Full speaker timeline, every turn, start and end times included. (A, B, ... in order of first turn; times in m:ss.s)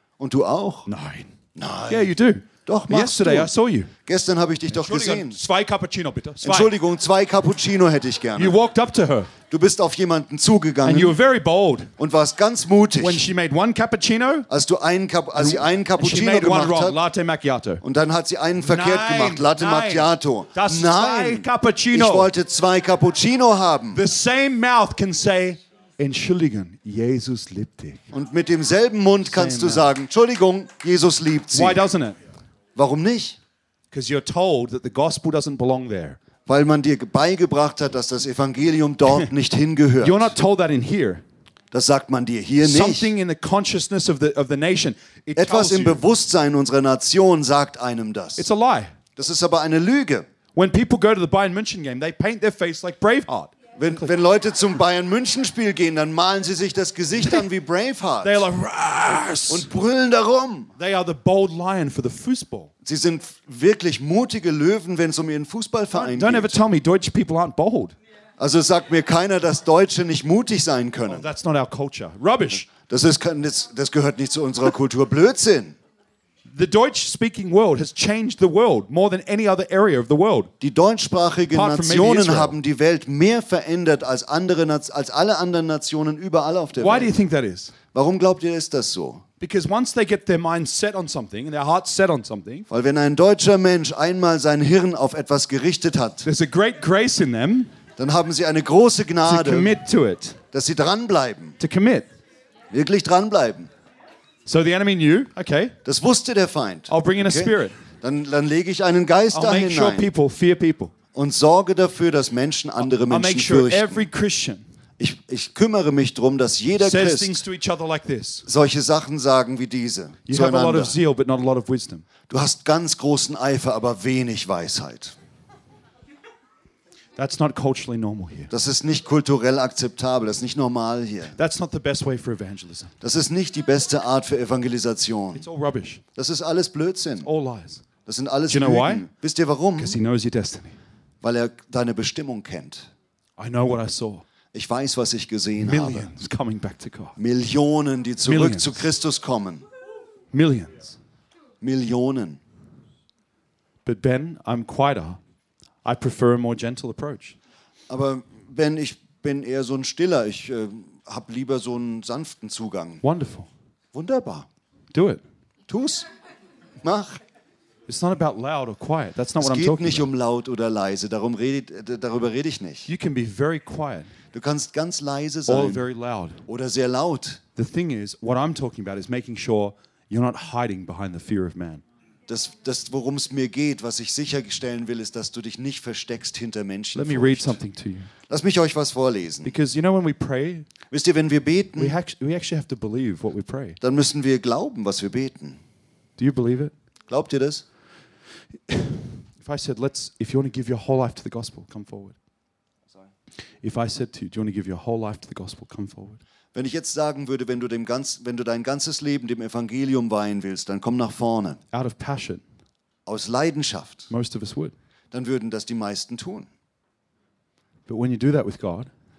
0:00.2-0:00.9 A
0:00.8-0:01.3 B
0:01.5-0:03.5 A
0:01.9-0:03.9 B
0:04.0-0:05.4 A
0:04.7-0:06.7 B
0:06.4-0:08.6 A
0:08.4-0:09.3 B
0:09.5-0:11.2 A
0:10.8-0:11.9 B
0:12.0-0:13.2 A
0:13.0-0:14.5 B
0:14.5-0:17.0 A
0:15.4-0:17.8 B
0:17.8-0:24.0 A
0:18.6-0:22.3 B
0:23.9-0:28.0 B
0:28.1-0:31.8 A
0:29.2-0:29.9 B
0:31.5-0:32.2 B
0:32.7-0:33.4 A
0:33.9-0:36.2 B
0:36.4-0:40.3 A
0:40.0-0:41.2 B
0:41.7-0:43.1 A
0:42.6-0:46.0 B
0:45.3-0:48.5 A
0:48.4-0:48.9 B
0:49.2-0:50.3 A
0:50.5-0:54.0 B
0:53.8-0:58.5 A
0:58.2-0:59.7 B
0:59.5-1:00.7 A
1:00.8-1:02.7 B
1:02.8-1:06.6 A
1:05.9-1:07.9 B
1:08.4-1:11.3 A
1:11.1-1:12.7 B
1:12.7-1:15.8 A
1:16.5-1:20.5 B
1:20.6-1:27.1 A
1:21.5-1:22.6 B
1:26.8-1:27.7 B
1:27.9-1:29.2 A
1:29.4-1:32.7 B
1:32.7-1:36.3 A
1:36.2-1:37.7 B
1:38.0-1:39.7 A
1:39.2-1:40.4 B
1:40.5-1:41.6 A
1:41.6-1:42.1 B
1:42.7-1:43.7 A
1:44.4-1:45.8 B
1:45.8-1:50.1 A
1:46.9-1:47.8 B
1:49.3-1:50.9 B
1:51.1-1:54.1 A
1:52.8-1:54.6 B
1:55.0-1:57.4 A
1:56.8-1:58.4 B
1:58.4-2:01.0 A
2:00.3-2:02.0 B
2:02.3-2:05.1 A
2:07.2-2:08.5 B
2:08.5-2:11.4 A
2:11.4-2:12.9 B
2:13.0-2:15.4 A
2:15.3-2:16.0 B
2:16.1-2:17.3 A
2:17.2-2:17.8 B
2:18.0-2:20.0 A
2:18.5-2:19.1 B
2:19.8-2:20.8 B
2:21.2-2:22.9 A
2:23.4-2:24.2 B
2:24.5-2:26.1 A
2:25.6-2:27.1 B
2:27.2-2:29.6 A
2:28.2-2:28.8 B
2:30.3-2:30.9 B
2:31.6-2:32.4 A
2:33.8-2:35.2 B
2:35.8-2:37.4 B
2:37.9-2:43.0 A
2:43.0-2:43.5 B
2:43.9-2:44.5 A
2:44.9-2:45.2 B
2:45.7-2:46.1 A
2:46.8-2:47.2 A
2:47.9-2:50.0 B
2:49.4-2:52.9 A
2:52.9-2:54.1 B
2:54.3-2:55.8 A
2:55.5-2:56.4 B
2:56.4-2:57.4 A
2:57.6-3:01.8 B
3:02.3-3:07.6 A
3:06.9-3:08.1 B
3:08.3-3:09.6 A
3:09.4-3:10.7 B
3:10.9-3:12.0 A
3:11.8-3:13.8 B
3:13.8-3:15.6 A
3:16.2-3:16.7 B
3:17.1-3:17.6 A
3:18.7-3:22.2 B
3:23.6-3:26.2 B
3:26.5-3:31.6 A
3:31.7-3:32.4 B
3:33.0-3:34.1 A
3:34.1-3:34.7 B
3:35.1-3:36.5 A
3:37.9-3:38.9 B